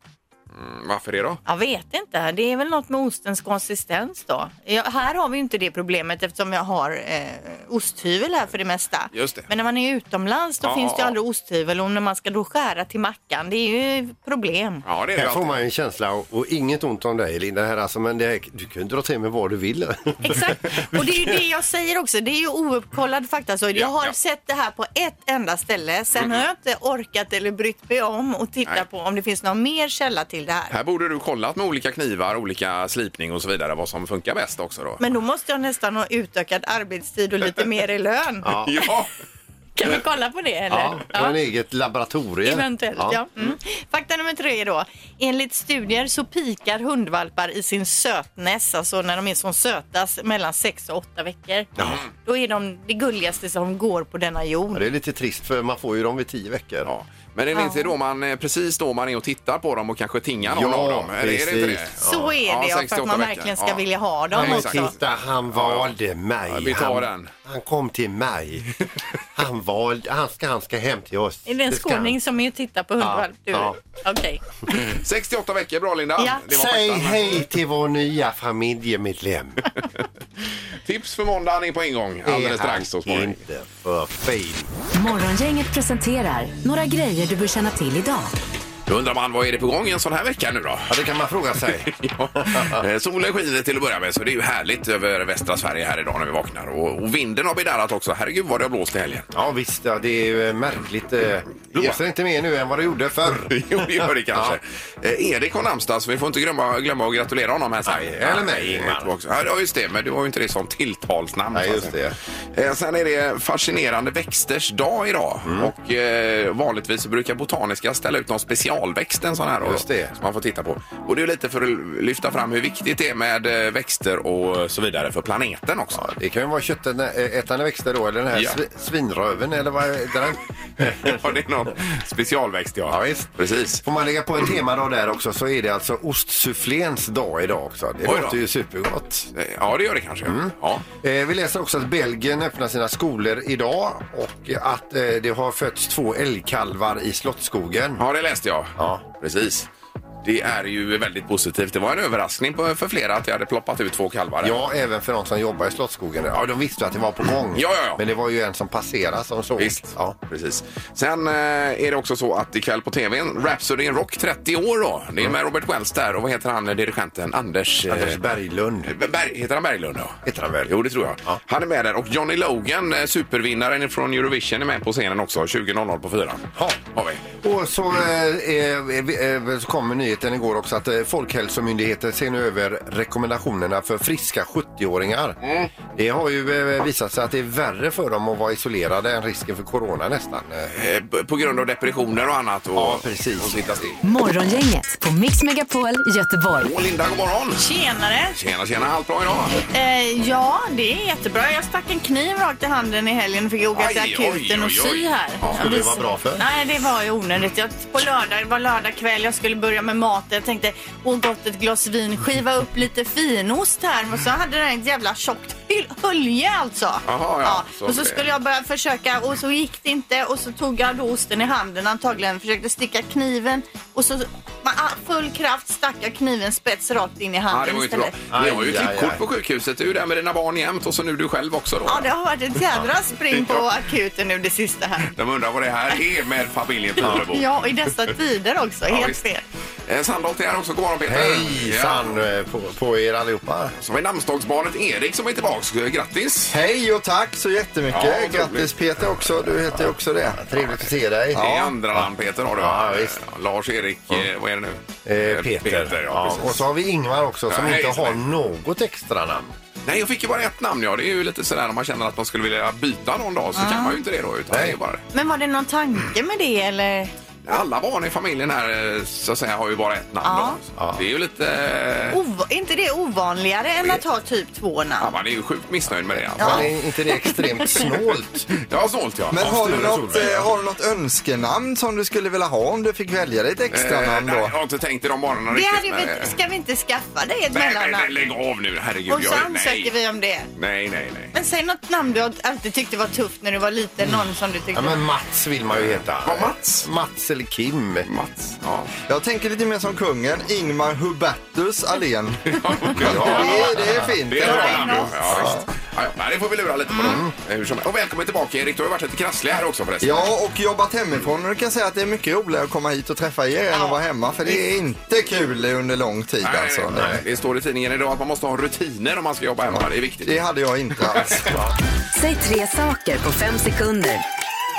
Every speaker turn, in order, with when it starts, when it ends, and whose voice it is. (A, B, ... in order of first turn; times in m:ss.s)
0:00.5-0:01.4 A
0:01.4-0:14.8 B
0:09.1-0:09.5 A
0:10.6-0:11.2 A
0:14.8-0:15.6 A
0:15.2-0:21.3 C
0:20.2-0:30.7 B
0:23.7-0:24.1 A
0:30.7-0:35.0 A
0:35.0-0:38.6 B
0:38.4-0:38.8 C
0:38.6-0:39.1 A
0:39.8-0:41.4 B
0:40.7-0:43.2 C
0:42.4-0:54.9 B
0:51.8-0:52.0 C
0:51.8-0:52.1 A
0:54.7-0:56.9 C
0:56.8-1:05.9 A
0:57.5-0:57.9 B
1:00.4-1:02.3 C
1:02.0-1:04.9 B
1:04.3-1:08.7 C
1:06.5-1:07.3 A
1:09.3-1:12.2 C
1:11.4-1:14.4 B
1:13.0-1:13.8 C
1:14.9-1:17.4 A
1:16.2-1:16.4 B
1:16.5-1:19.7 C
1:20.8-1:23.4 A
1:22.2-1:24.7 C
1:24.9-1:28.3 D
1:28.9-1:31.0 A
1:30.9-1:32.8 C
1:31.7-1:39.3 A
1:39.3-1:44.6 C
1:41.6-1:42.0 A
1:43.5-1:51.9 A
1:47.8-1:49.1 C
1:51.5-1:52.1 C
1:52.5-2:06.0 A
1:55.4-1:55.7 C
1:59.6-2:00.1 C
2:06.0-2:11.2 C
2:08.3-2:08.6 A
2:11.0-2:13.8 A
2:12.9-2:13.3 C
2:13.8-2:19.3 C
2:18.0-2:18.4 A
2:19.3-2:20.8 A
2:20.2-2:28.0 C
2:28.0-2:29.7 A
2:28.8-2:29.1 C
2:30.2-2:34.6 A
2:34.4-2:40.2 C
2:37.5-2:38.0 A
2:39.6-2:48.2 A
2:47.9-2:48.9 C
2:48.8-2:57.2 A
2:50.2-2:50.7 C
2:56.5-2:56.8 C
2:57.4-3:10.7 C
3:05.4-3:05.7 A
3:10.7-3:14.0 A
3:12.8-3:13.8 C
3:14.0-3:16.7 D
3:16.6-3:17.6 A
3:17.6-3:18.4 B
3:18.3-3:19.6 A
3:19.7-3:48.2 B
3:23.7-3:25.6 A
3:25.6-3:26.4 C
3:37.0-3:38.2 A
3:47.5-3:52.1 A
3:48.3-3:49.2 C
3:51.9-3:55.1 B
3:53.3-3:53.6 A
3:55.1-3:57.4 A
3:57.0-3:59.4 B
3:58.8-3:59.2 A
3:59.9-4:02.0 A
4:01.0-4:03.7 C
4:03.8-4:06.5 A
4:06.5-4:10.4 E
4:07.9-4:08.7 A
4:09.7-4:13.2 C
4:10.5-4:16.6 A
4:11.3-4:11.8 E
4:15.0-4:19.5 C
4:17.5-4:18.2 A
4:19.8-4:25.0 A
4:23.5-4:24.0 B
4:24.5-4:24.8 C
4:25.1-4:27.1 B
4:27.4-4:32.2 A
4:30.2-4:30.6 B
4:30.8-4:31.0 C
4:32.1-4:35.1 B
4:35.0-4:36.7 A
4:36.4-4:37.8 B
4:36.4-4:38.5 C
4:38.6-4:40.3 A
4:39.3-4:44.5 E
4:39.4-4:40.5 C
4:43.7-4:46.4 A
4:45.5-4:48.1 B
4:47.5-4:49.9 A
4:49.1-4:50.5 B
4:50.6-4:51.3 A
4:51.3-4:55.0 B
4:54.7-4:58.1 C
4:55.7-4:56.9 A
4:58.0-4:58.9 A
4:59.1-5:05.0 E
5:02.5-5:10.3 A
5:03.2-5:03.7 B
5:03.2-5:04.5 C
5:04.4-5:05.1 B
5:05.2-5:05.7 C
5:06.9-5:07.2 B
5:07.0-5:07.3 C
5:10.0-5:17.1 E
5:13.7-5:14.6 B
5:16.4-5:20.4 A
5:16.9-5:17.2 C
5:20.2-5:21.5 E
5:21.0-5:21.6 A
5:22.1-5:24.2 D